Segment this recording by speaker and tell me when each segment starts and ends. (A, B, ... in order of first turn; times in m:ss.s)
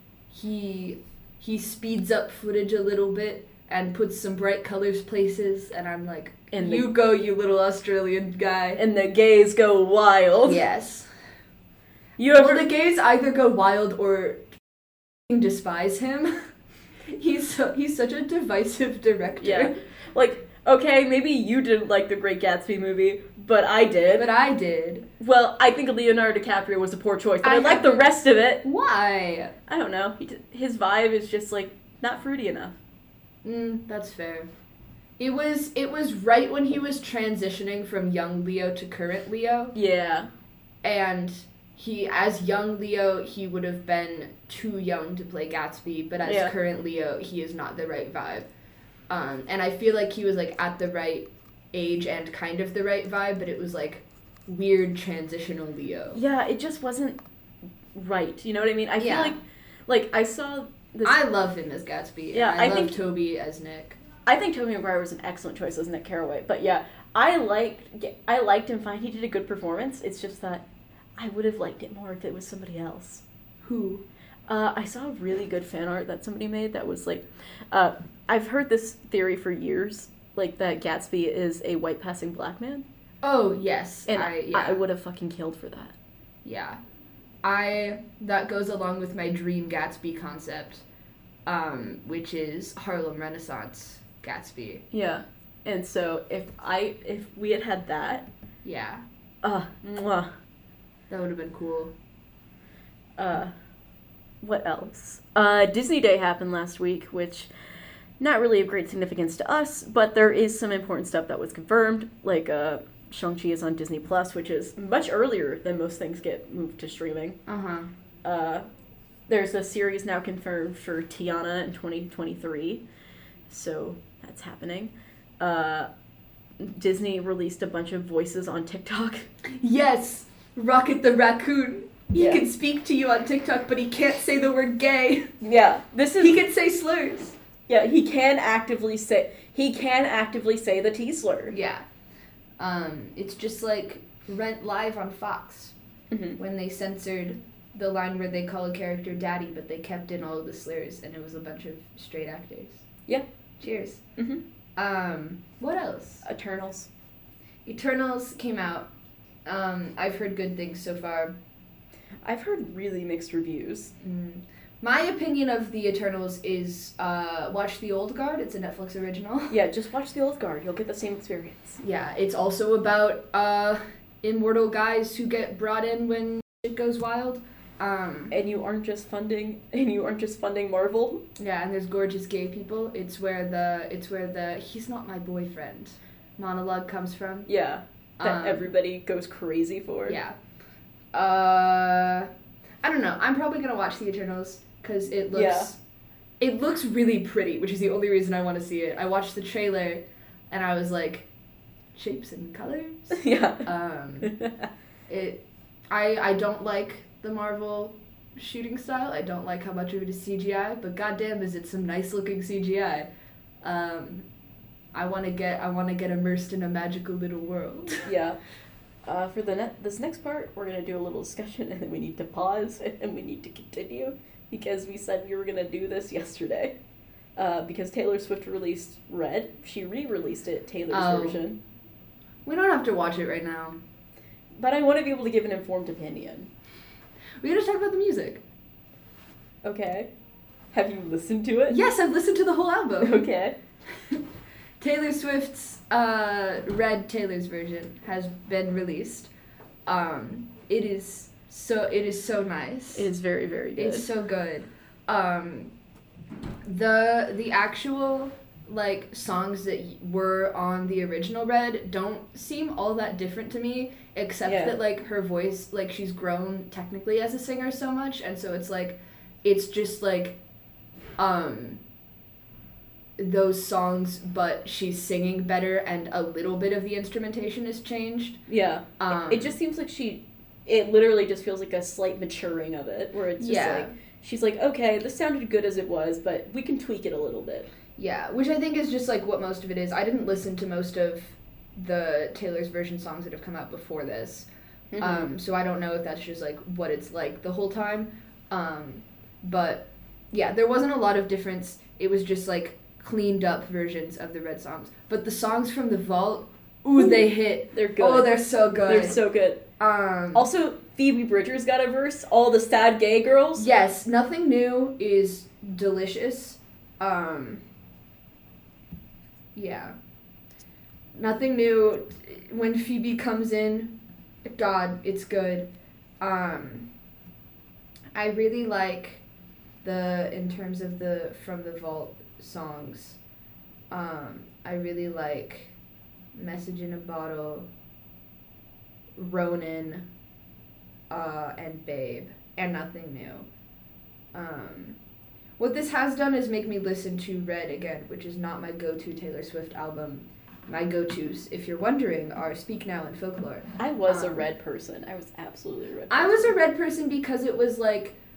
0:00.3-0:08.8 A
0:06.5-0:06.9 B
0:08.8-0:10.6 B
0:10.4-0:11.1 A
0:12.2-0:12.7 B
0:12.3-0:14.6 A
0:15.3-0:16.4 A
0:17.1-0:19.7 A
0:19.4-0:24.3 B
0:24.1-0:25.1 A
0:25.2-0:28.6 B
0:27.4-0:27.9 A
0:28.6-0:29.5 A
0:29.7-0:32.8 B
0:33.4-0:34.5 A
0:35.2-0:39.7 A
0:39.7-0:40.3 B
0:40.8-0:48.5 A
0:46.2-0:46.5 B
0:49.1-0:56.2 A
0:56.1-0:57.2 B
0:57.9-1:01.2 B
0:59.0-0:59.3 A
1:01.0-1:04.0 A
1:02.3-1:03.0 B
1:04.2-1:10.6 B
1:11.2-1:13.2 B
1:13.6-1:14.0 A
1:14.5-1:22.8 B
1:23.2-1:24.8 A
1:24.1-1:25.9 B
1:26.4-1:26.8 A
1:27.4-1:30.8 A
1:31.4-1:34.8 A
1:34.9-1:38.3 B
1:38.6-1:39.0 A
1:39.4-1:40.3 B
1:41.1-1:41.9 A
1:43.2-1:43.5 B
1:44.4-1:47.5 B
1:48.2-1:57.4 B
1:57.5-1:57.9 A
1:58.2-1:58.6 B
1:59.3-2:02.8 B
2:03.5-2:05.9 B
2:06.6-2:09.3 B
2:09.5-2:15.3 A
2:12.1-2:12.4 B
2:15.4-2:16.4 B
2:16.2-2:17.4 A
2:17.7-2:21.5 B
2:21.5-2:21.8 A
2:22.6-2:25.7 A
2:26.1-2:26.4 B
2:26.4-2:32.8 A
2:33.6-2:34.0 A
2:34.2-2:34.4 B
2:34.8-2:36.2 A
2:36.2-2:36.9 B
2:37.6-2:38.9 A
2:39.4-2:41.4 A
2:42.2-2:43.9 B
2:44.0-2:49.6 A
2:49.5-2:51.8 B
2:51.8-2:58.3 A
2:58.3-3:01.2 B
3:01.4-3:07.5 A
3:07.5-3:10.2 B
3:08.2-3:08.7 A
3:10.1-3:10.4 A
3:11.1-3:12.3 A
3:12.8-3:15.8 A
3:15.3-3:15.7 B
3:16.4-3:21.3 A
3:21.9-3:24.3 A
3:23.1-3:23.7 B
3:24.2-3:24.7 B
3:25.1-3:33.1 A
3:33.6-3:34.2 A
3:34.9-3:38.1 A
3:38.0-3:38.4 B
3:39.0-3:46.8 B
3:47.4-3:51.6 B
3:50.9-3:51.4 A
3:52.4-3:53.8 A
3:54.6-3:56.5 B
3:57.4-3:58.4 A
3:59.6-4:00.1 B
4:00.7-4:01.8 B
4:01.7-4:03.2 A
4:03.0-4:03.6 B
4:04.8-4:09.3 A
4:09.8-4:13.1 A
4:12.9-4:14.1 B
4:13.8-4:15.7 A
4:16.6-4:30.4 A
4:24.4-4:24.8 B
4:31.2-4:31.8 A
4:33.2-4:38.4 A
4:38.5-4:47.7 B
4:39.0-4:39.5 A
4:43.4-4:43.9 A
4:48.0-4:54.5 A
4:54.9-4:55.3 B
4:55.0-5:09.2 A
5:07.0-5:09.6 B
5:09.8-5:10.5 A
5:10.3-5:13.7 B
5:13.6-5:17.6 A
5:19.6-5:19.9 A
5:21.2-5:23.9 A
5:24.4-5:25.7 A
5:26.2-5:26.9 A
5:28.1-5:29.2 A
5:29.8-5:33.2 A
5:33.9-5:35.7 A
5:36.3-5:37.7 A
5:39.2-5:40.0 A
5:41.1-5:43.5 A
5:44.3-5:45.0 A
5:45.6-5:54.5 A
5:53.8-5:56.5 B
5:56.1-5:58.2 A